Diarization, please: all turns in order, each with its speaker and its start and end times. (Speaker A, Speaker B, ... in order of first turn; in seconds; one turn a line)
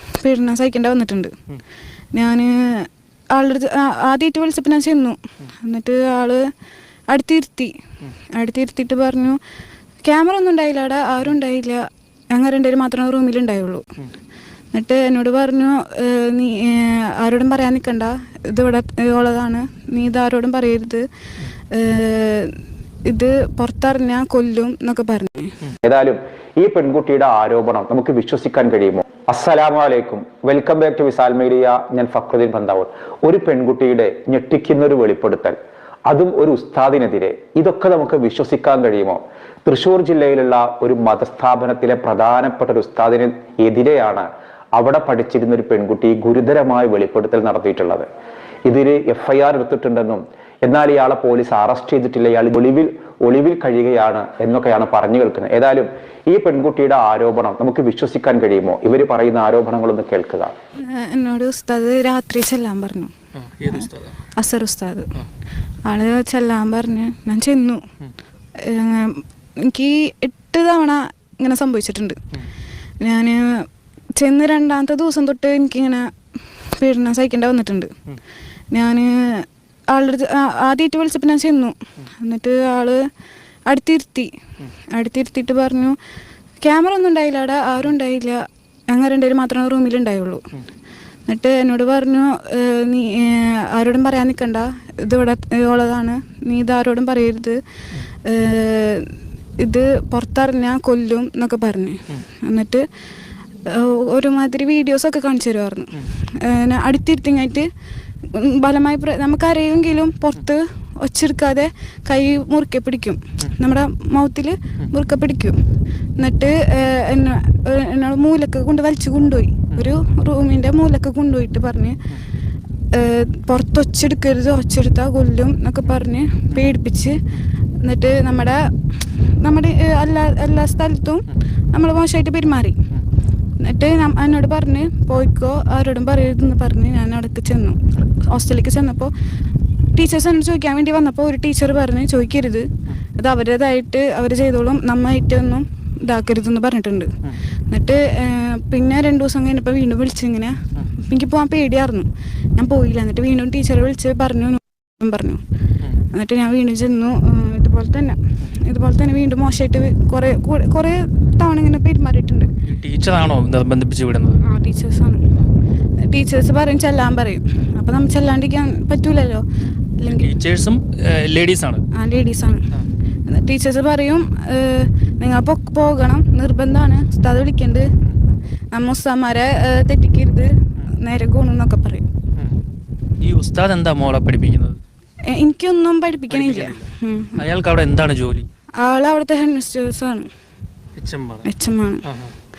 Speaker A: 0.2-1.3
Speaker A: 2.1-6.4
Speaker A: 7.1-7.7
Speaker A: 8.3-9.4
Speaker A: 10.0-13.8
Speaker A: 14.7-21.1
Speaker A: 21.7-22.5
Speaker A: 23.1-25.5
Speaker B: 25.8-35.5
Speaker B: 36.1-48.1
Speaker B: 48.6-60.5
Speaker A: 60.9-63.1
Speaker C: 63.4-64.2
Speaker A: 63.8-65.1
Speaker A: 65.8-67.8
Speaker A: 68.6-72.2
Speaker A: 73.0-76.1
Speaker A: 76.8-77.9
Speaker A: 78.7-83.0
Speaker A: 83.7-84.3
Speaker A: 84.9-86.0
Speaker A: 86.6-90.4
Speaker A: 91.3-97.6
Speaker A: 98.2-99.0
Speaker A: 99.6-102.8
Speaker A: 103.7-107.7
Speaker A: 108.3-115.6
Speaker A: 116.2-122.0
Speaker A: 122.9-127.2
Speaker A: 127.8-128.6
Speaker A: 129.4-132.8
Speaker A: 133.6-139.1
Speaker A: 139.9-147.1
Speaker A: 147.7-155.4
Speaker A: 156.1-162.5
Speaker C: 162.6-164.4
Speaker A: 164.4-165.2
Speaker A: 166.1-169.4
Speaker A: 170.0-170.3
Speaker C: 170.1-171.8
Speaker A: 171.9-172.6
Speaker A: 173.3-177.9
Speaker A: 178.7-182.1
Speaker C: 182.3-182.6
Speaker C: 183.2-184.8
Speaker A: 185.3-187.4
Speaker C: 186.3-188.5
Speaker A: 188.8-190.3
Speaker C: 191.0-191.5
Speaker A: 191.4-192.0
Speaker C: 192.0-192.3